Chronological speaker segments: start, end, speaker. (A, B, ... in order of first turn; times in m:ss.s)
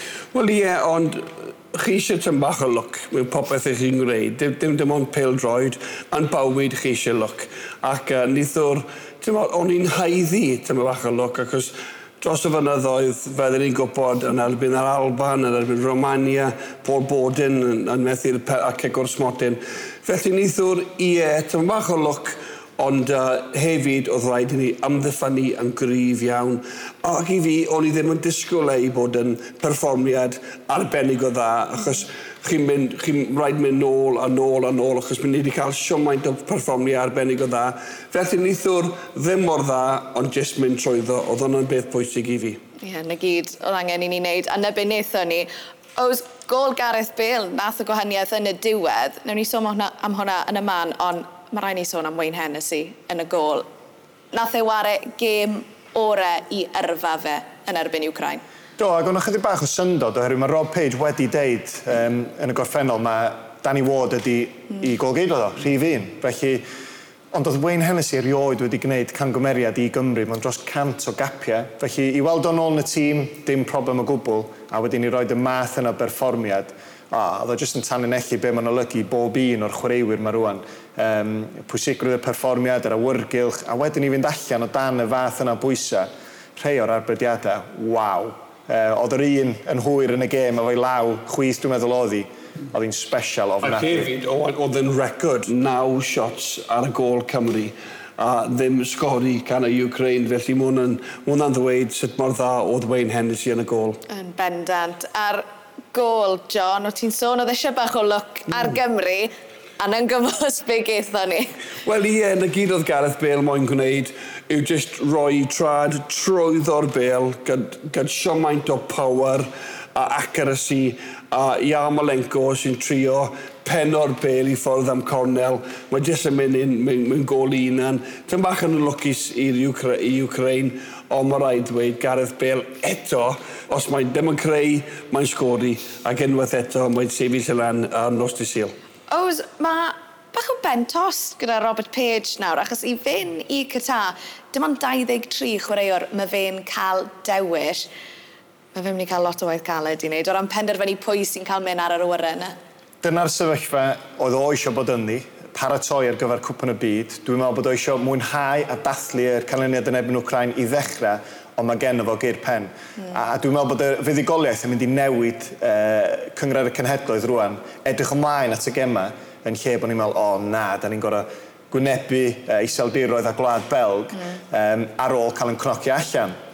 0:00.3-0:42.6 A
0:42.8-0:53.7 B
0:54.3-0:58.4 B
0:58.8-1:06.6 C
1:07.3-1:34.1 C
1:33.6-1:44.0 A
1:44.1-1:51.5 B
1:51.8-2:18.7 A
2:19.1-2:27.9 B
2:28.7-2:32.6 B
2:33.0-2:56.3 C